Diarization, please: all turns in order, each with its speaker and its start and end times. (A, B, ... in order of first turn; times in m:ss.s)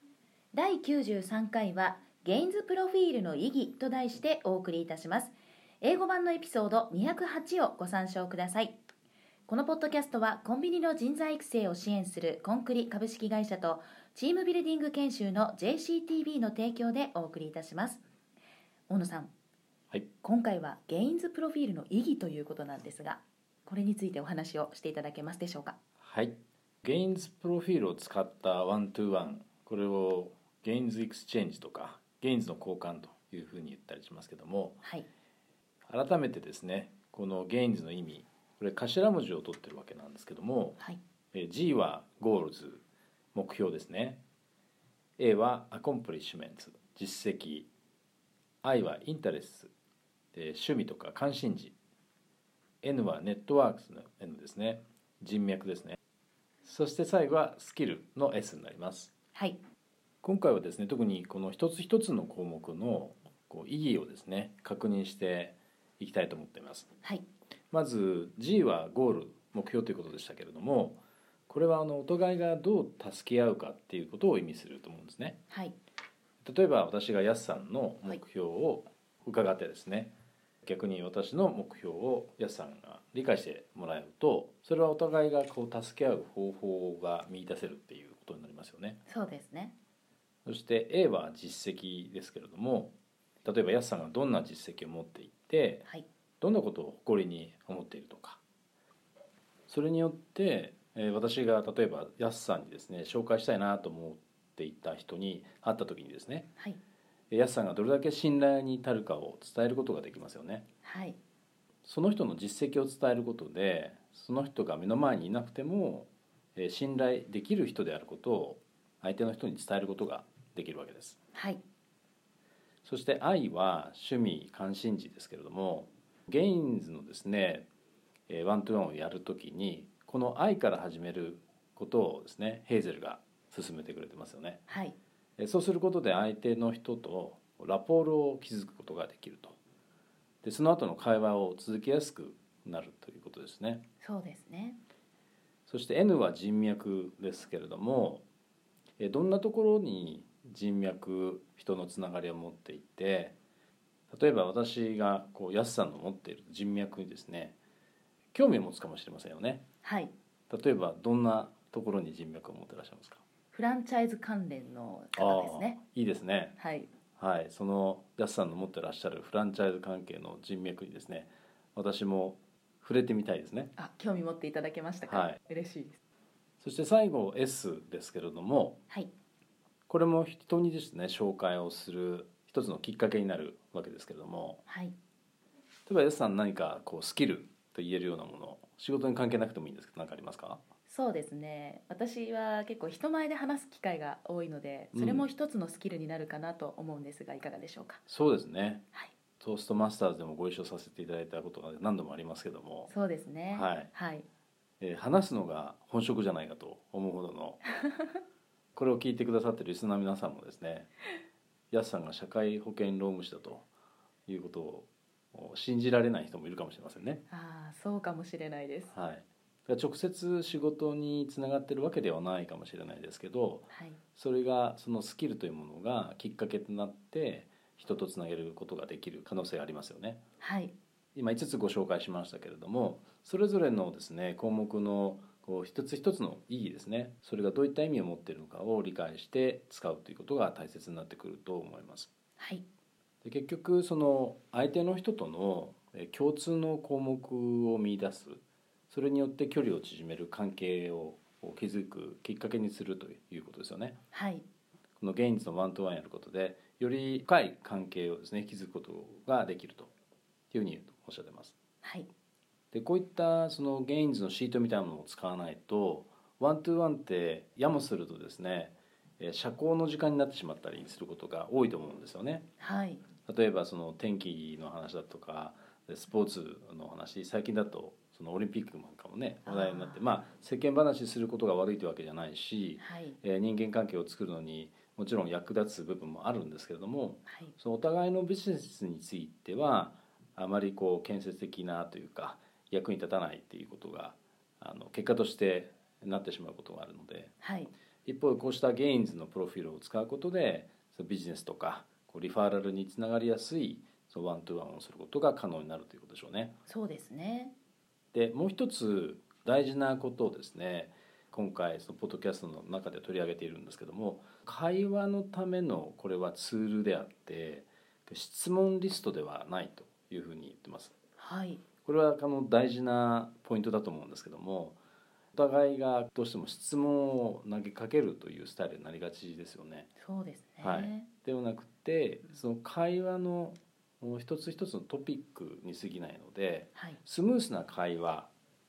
0:00.5-0:08.8 A
0:09.5-0:18.0 A
0:18.9-0:19.3 A
0:20.2-0:25.8 A
0:26.0-0:34.8 B
0:35.9-0:40.8 B
0:41.3-0:42.8 B
0:43.3-0:44.2 B
0:45.2-0:47.7 B
0:48.6-0:49.7 B
0:50.3-0:51.7 B
0:52.8-0:56.0 B
0:56.6-0:59.1 B
0:59.3-0:59.6 A
1:00.2-1:06.9 B
1:07.7-1:15.4 B
1:16.4-1:29.0 B
1:29.1-1:29.7 A
1:30.4-1:35.9 B
1:36.4-1:38.4 B
1:39.7-1:46.5 B
1:47.3-1:50.6 B
1:50.8-1:51.2 A
1:51.8-2:01.2 B
2:01.3-2:01.6 A
2:02.8-2:07.7 B
2:08.3-2:14.6 B
2:14.7-2:15.0 A
2:15.4-2:19.6 B
2:20.4-2:23.8 B
2:24.0-2:24.8 A
2:25.7-2:28.2 B
2:29.0-2:33.3 B
2:34.1-2:37.6 B
2:38.3-2:39.6 B
2:39.8-2:40.1 A
2:40.5-2:43.2 B
2:43.5-2:45.8 A
2:45.2-2:46.6 B
2:46.6-2:46.9 A
2:47.2-2:53.7 B
2:53.8-2:56.0 A
2:55.1-2:55.4 B
2:56.6-2:58.8 B
2:59.9-3:04.6 B
3:04.6-3:04.9 A
3:05.9-3:10.6 B
3:10.9-3:18.0 A
3:14.9-3:15.3 B
3:18.1-3:18.8 B
3:19.4-3:22.9 B
3:22.9-3:24.2 A
3:23.5-3:23.9 B
3:24.8-3:27.6 B
3:28.7-3:30.9 B
3:31.7-3:33.6 B
3:34.3-3:37.2 B
3:37.3-3:38.9 A
3:38.9-3:50.2 B
3:43.7-3:44.0 A
3:50.4-3:50.7 A
3:51.1-4:02.1 B
4:03.2-4:14.0 B
4:14.1-4:14.4 A
4:15.0-4:19.9 B
4:20.5-4:21.6 B
4:22.7-4:32.4 B
4:32.6-4:33.0 A
4:33.2-4:57.3 B
4:39.4-4:40.0 A
4:42.8-4:43.2 A
4:47.3-4:47.5 A
4:57.4-4:57.7 A
4:58.0-5:06.5 B
5:06.7-5:07.5 A
5:08.1-5:20.9 B
5:21.2-5:21.6 A
5:21.8-5:24.8 B
5:25.3-5:29.9 B
5:30.0-5:31.1 A
5:30.6-5:38.3 B